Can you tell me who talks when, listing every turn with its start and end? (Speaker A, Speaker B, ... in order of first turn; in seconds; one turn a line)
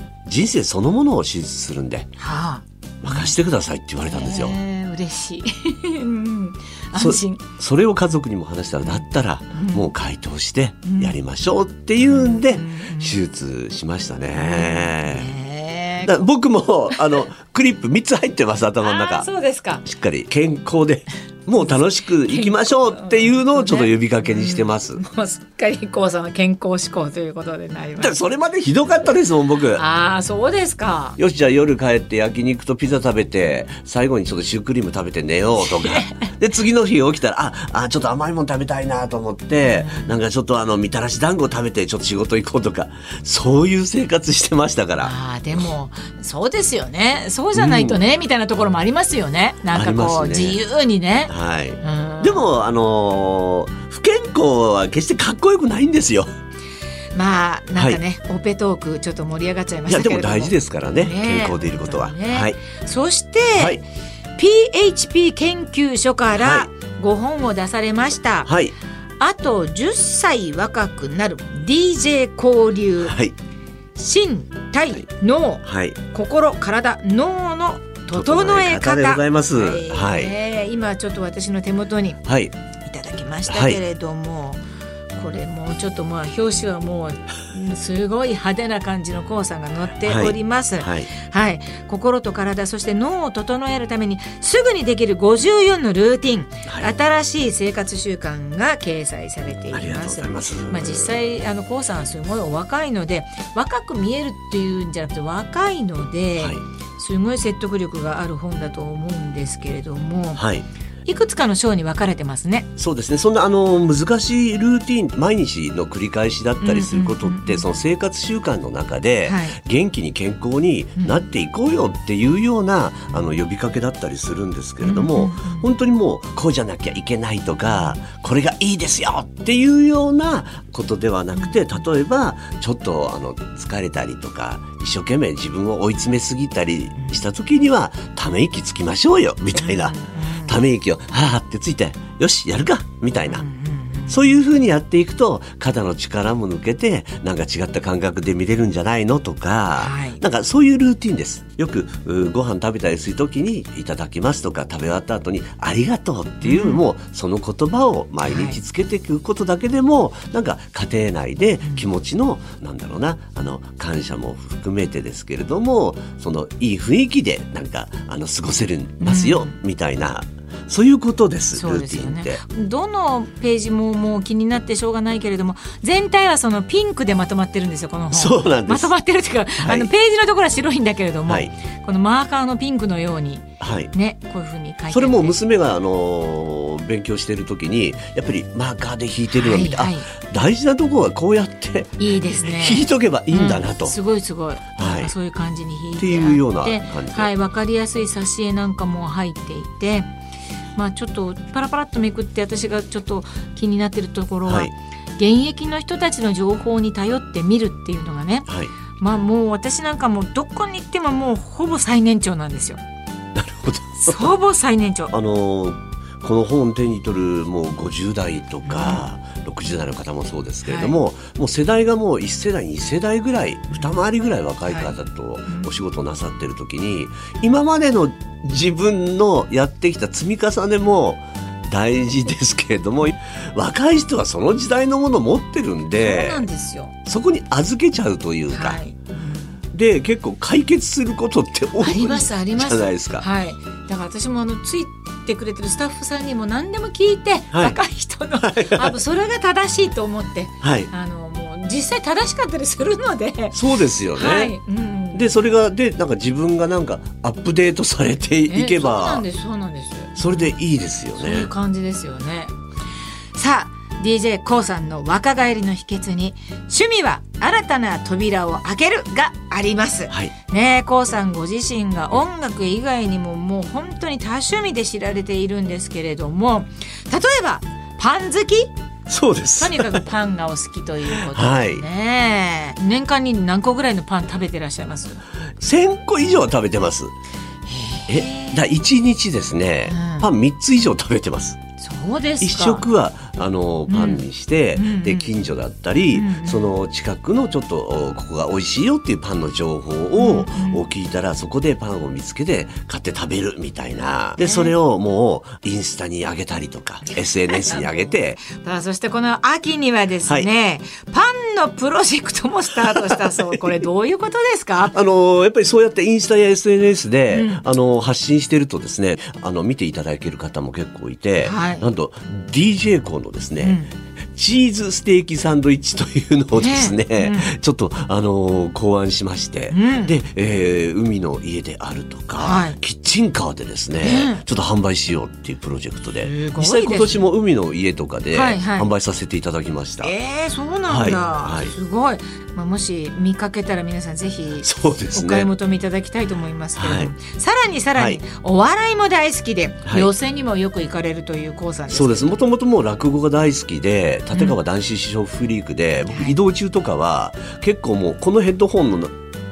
Speaker A: 0.2-2.1
Speaker B: 2.2-3.4
Speaker A: 3.0-4.6
Speaker B: 4.0-7.4
Speaker A: 6.9-15.3
Speaker B: 8.8-9.9
Speaker B: 10.8-11.2
Speaker B: 12.0-13.2
Speaker B: 14.3-16.2
Speaker A: 16.0-19.3
Speaker B: 16.9-17.2
Speaker B: 18.8-19.8
Speaker A: 19.8-25.0
Speaker B: 21.6-28.2
Speaker A: 28.0-29.8
Speaker B: 29.8-31.2
Speaker A: 31.2-45.7
Speaker B: 35.6-36.2
Speaker B: 39.6-40.2
Speaker B: 45.0-52.4
Speaker A: 47.5-48.0
Speaker A: 49.7-50.6
Speaker A: 51.3-56.3
Speaker B: 57.1-63.8
Speaker A: 59.9-62.6
Speaker A: 63.5-63.8
Speaker B: 64.3-68.5
Speaker A: 66.3-66.7
Speaker A: 68.5-68.7
Speaker B: 69.2-73.2
Speaker A: 73.0-73.3
Speaker B: 74.0-82.2
Speaker A: 75.6-76.0
Speaker A: 78.1-80.3
Speaker A: 82.2-82.5
Speaker B: 82.8-84.6
Speaker A: 83.5-83.8
Speaker B: 85.1-110.4
Speaker A: 90.0-91.1
Speaker A: 99.7-101.2
Speaker A: 106.4-106.6
Speaker A: 110.3-110.7
Speaker B: 111.1-112.7
Speaker A: 112.8-143.4
Speaker B: 116.6-117.7
Speaker B: 119.2-119.6
Speaker B: 124.8-125.7
Speaker B: 127.7-128.0
Speaker B: 137.0-137.2
Speaker B: 139.5-140.6
Speaker B: 143.3-144.3
Speaker A: 144.1-172.4
Speaker B: 149.8-150.2
Speaker B: 156.4-156.8
Speaker B: 158.2-158.6
Speaker B: 169.0-169.5
Speaker B: 171.5-185.4
Speaker A: 178.1-178.9
Speaker A: 179.6-179.9
Speaker A: 183.6-183.9
Speaker A: 184.9-193.9
Speaker B: 189.3-190.1
Speaker B: 192.0-200.1
Speaker A: 194.8-195.1
Speaker A: 196.0-197.3
Speaker B: 200.8-212.8
Speaker A: 204.4-204.7
Speaker A: 213.3-214.3
Speaker B: 214.0-215.2
Speaker A: 215.1-236.4
Speaker B: 218.6-219.1
Speaker B: 220.6-221.0
Speaker B: 223.7-224.0
Speaker B: 224.7-224.9
Speaker B: 225.5-225.7
Speaker B: 236.0-236.9
Speaker A: 237.1-238.8
Speaker B: 238.5-239.6
Speaker A: 239.7-243.3
Speaker B: 241.8-253.6
Speaker A: 247.5-247.8
Speaker A: 248.4-248.9
Speaker A: 250.6-250.9
Speaker A: 253.5-254.5
Speaker B: 254.1-255.3
Speaker A: 255.1-259.2
Speaker B: 258.5-260.6
Speaker A: 260.2-261.5
Speaker B: 261.2-262.5
Speaker B: 263.3-278.7
Speaker A: 279.1-280.0
Speaker B: 279.6-285.2
Speaker A: 281.2-281.8
Speaker A: 285.6-287.1
Speaker B: 287.7-288.6
Speaker A: 288.1-291.6
Speaker B: 289.9-290.3
Speaker B: 291.8-292.9
Speaker A: 292.4-308.4
Speaker B: 293.9-295.3
Speaker B: 296.1-296.7
Speaker B: 300.1-300.9
Speaker B: 304.4-304.7
Speaker B: 307.1-314.9
Speaker A: 312.8-313.6
Speaker A: 314.9-323.8
Speaker B: 317.3-317.6
Speaker B: 321.4-321.9
Speaker B: 323.6-323.9
Speaker A: 324.3-340.1
Speaker B: 326.6-327.5
Speaker B: 329.7-330.1
Speaker B: 332.4-332.8
Speaker B: 334.0-334.4
Speaker B: 336.2-337.2
Speaker B: 338.3-338.9
Speaker B: 340.0-352.3
Speaker A: 340.9-341.7
Speaker A: 344.6-345.5
Speaker A: 346.8-347.1
Speaker A: 347.9-348.2
Speaker A: 349.8-350.1
Speaker A: 351.9-359.1
Speaker B: 354.3-354.6
Speaker B: 356.1-356.4